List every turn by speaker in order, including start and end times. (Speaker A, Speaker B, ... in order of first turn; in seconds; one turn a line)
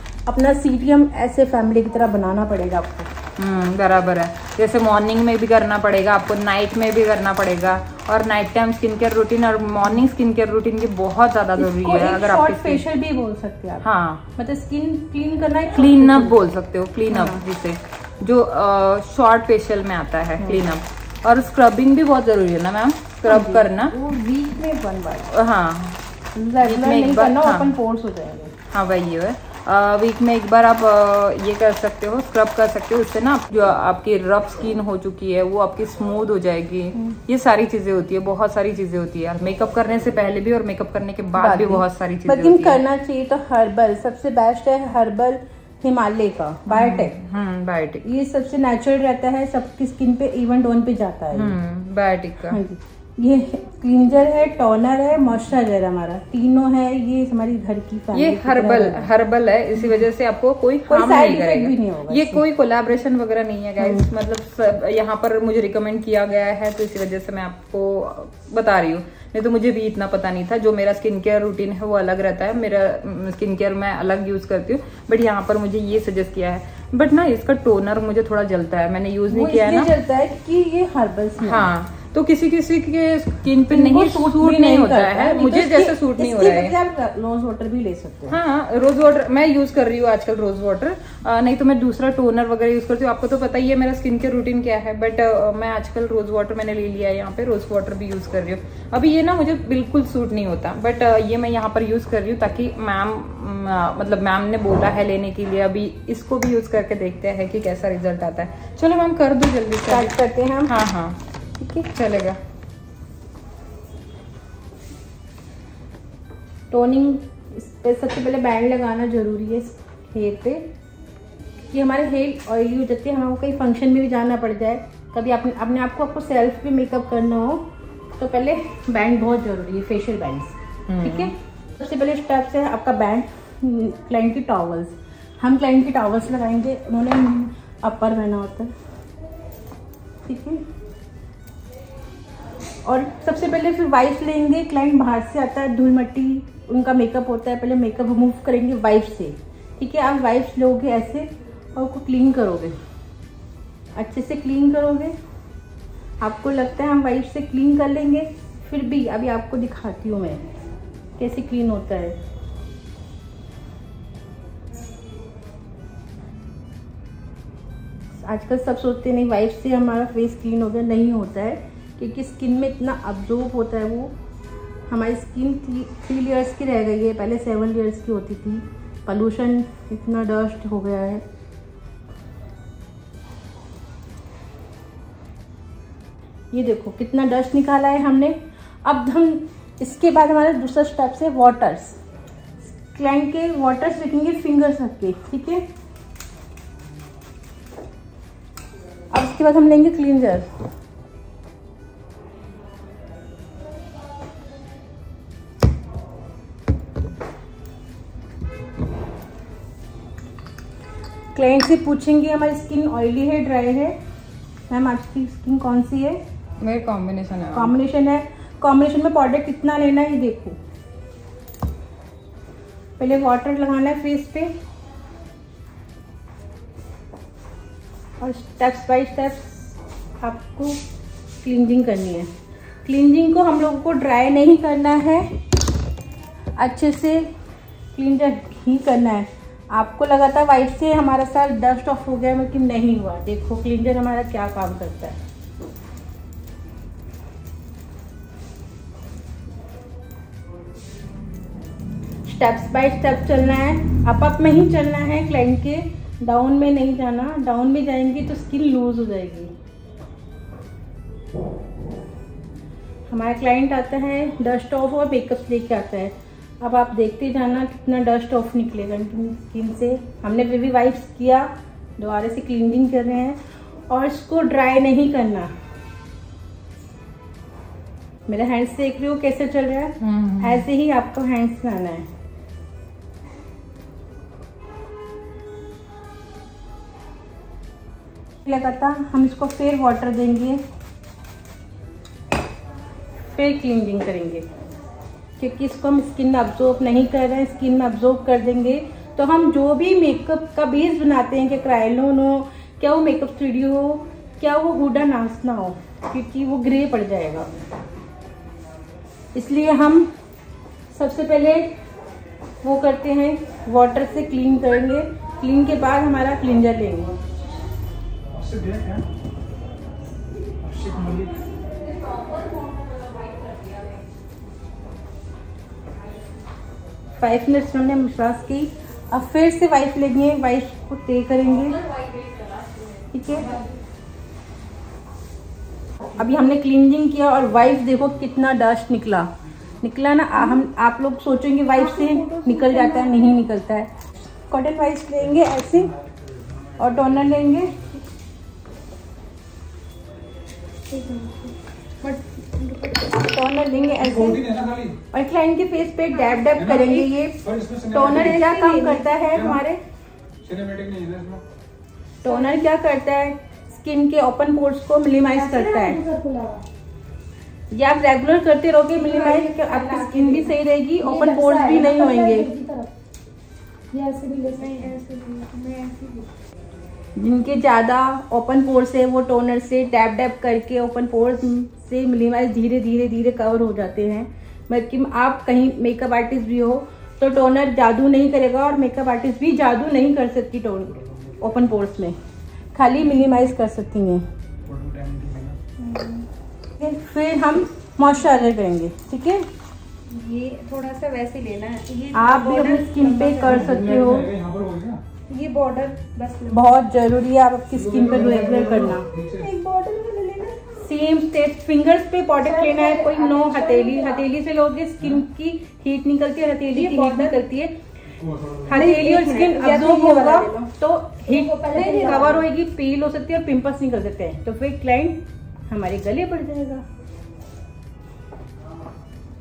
Speaker A: 0.3-3.1
Speaker B: 3.4-12.8
Speaker A: 11.6-16.4
Speaker B: 13.8-14.2
Speaker B: 15.8-23.9
Speaker A: 17.1-17.4
Speaker A: 20.4-20.6
Speaker A: 23.3-25.3
Speaker B: 25.3-26.0
Speaker A: 26.4-28.5
Speaker B: 26.6-27.7
Speaker B: 28.7-42.8
Speaker A: 41.4-47.2
Speaker B: 46.7-48.0
Speaker A: 48.0-51.6
Speaker B: 51.3-52.6
Speaker A: 52.5-59.1
Speaker B: 58.1-79.9
Speaker A: 60.9-62.5
Speaker A: 63.8-64.1
Speaker A: 79.3-81.7
Speaker B: 81.4-86.8
Speaker A: 83.7-88.4
Speaker B: 88.3-110.2
Speaker A: 109.9-110.8
Speaker B: 110.7-111.2
Speaker A: 111.6-111.9
Speaker B: 111.9-112.4
Speaker A: 116.7-120.7
Speaker A: 121.7-138.7
Speaker B: 130.9-131.3
Speaker A: 140.3-140.6
Speaker A: 142.8-152.8
Speaker A: 154.0-155.1
Speaker A: 156.2-160.4
Speaker A: 161.2-162.2
Speaker A: 168.2-174.1
Speaker A: 174.9-181.2
Speaker A: 186.5-192.0
Speaker A: 192.8-195.6
Speaker A: 199.1-200.5
Speaker A: 211.3-214.0
Speaker A: 214.7-216.2
Speaker B: 216.6-217.8
Speaker A: 217.5-220.6
Speaker A: 223.0-224.5
Speaker A: 228.2-229.5
Speaker A: 230.2-230.8
Speaker A: 231.4-232.3
Speaker A: 232.9-235.3
Speaker A: 236.6-237.3
Speaker A: 237.9-245.2
Speaker A: 252.3-259.5
Speaker A: 263.1-275.5
Speaker A: 278.3-282.1
Speaker B: 280.0-280.6
Speaker A: 288.4-290.6
Speaker A: 293.4-294.5
Speaker A: 295.4-307.5
Speaker A: 309.4-310.1
Speaker A: 310.9-311.8
Speaker A: 312.6-317.2
Speaker C: 318.3-319.1
Speaker C: 320.6-321.4
Speaker A: 327.2-331.8
Speaker A: 333.1-333.5
Speaker A: 336.2-339.3
Speaker A: 339.8-345.9
Speaker D: 340.4-340.6
Speaker D: 341.7-343.4
Speaker C: 346.0-347.7
Speaker A: 346.8-347.8
Speaker D: 350.9-351.5
Speaker D: 352.6-353.3
Speaker A: 353.2-354.4
Speaker C: 354.0-355.0
Speaker A: 355.1-357.4
Speaker C: 356.6-358.5
Speaker A: 357.9-359.8
Speaker D: 358.0-359.4
Speaker C: 359.3-359.6
Speaker C: 360.4-361.4
Speaker D: 362.2-362.7
Speaker A: 362.2-366.0
Speaker D: 365.3-366.6
Speaker A: 367.7-372.5
Speaker D: 368.9-372.9
Speaker D: 373.9-376.3
Speaker A: 377.2-392.2
Speaker A: 392.7-394.2
Speaker C: 394.7-395.6
Speaker D: 395.8-396.2
Speaker A: 396.8-399.5
Speaker B: 400.6-401.6
Speaker D: 401.9-403.9
Speaker A: 402.1-404.3
Speaker C: 403.4-405.0
Speaker D: 405.3-406.7
Speaker A: 406.5-409.1
Speaker C: 407.7-409.5
Speaker D: 408.1-410.7
Speaker A: 410.8-417.8
Speaker D: 412.4-414.3
Speaker D: 416.7-417.4
Speaker C: 418.2-418.8
Speaker A: 418.7-426.8
Speaker D: 418.7-420.7
Speaker D: 421.3-422.5